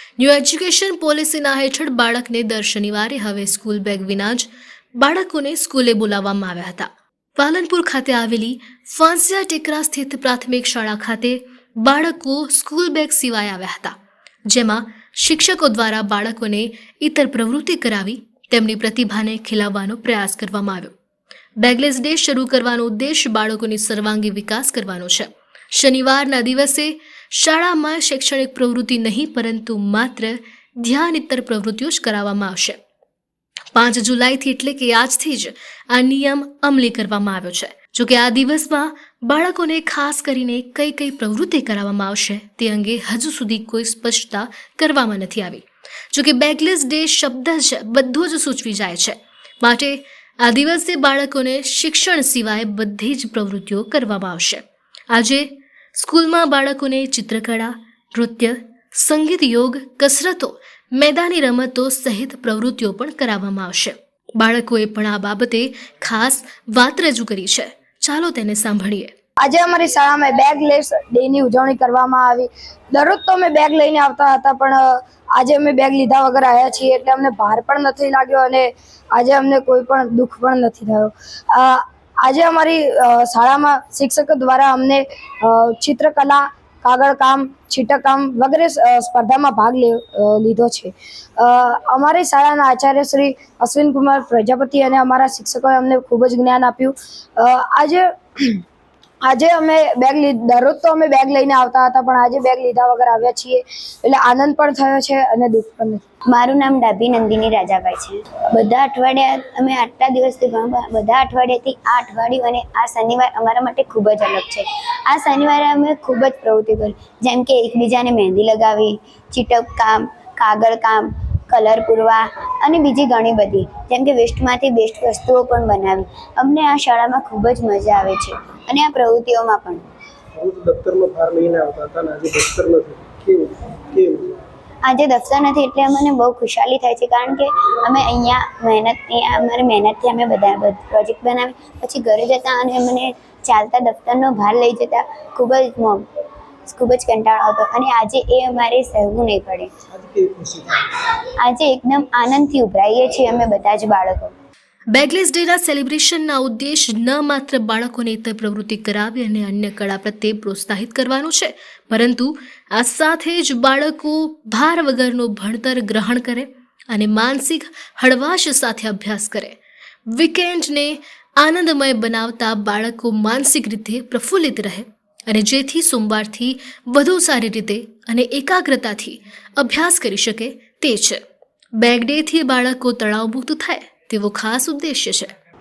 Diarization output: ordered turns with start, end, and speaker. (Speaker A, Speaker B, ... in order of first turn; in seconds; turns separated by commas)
Speaker A: 0.2-13.9, Speaker A: 14.5-20.9, Speaker A: 21.6-32.8, Speaker A: 33.7-69.1, Speaker B: 69.4-98.0, Speaker B: 99.3-106.0, Speaker C: 106.3-129.8, Speaker D: 130.4-134.5, Speaker C: 134.8-146.0, Speaker C: 146.7-149.7, Speaker D: 149.9-150.9, Speaker C: 151.4-154.3, Speaker A: 154.9-169.6, Speaker A: 170.1-181.2, Speaker A: 181.8-185.3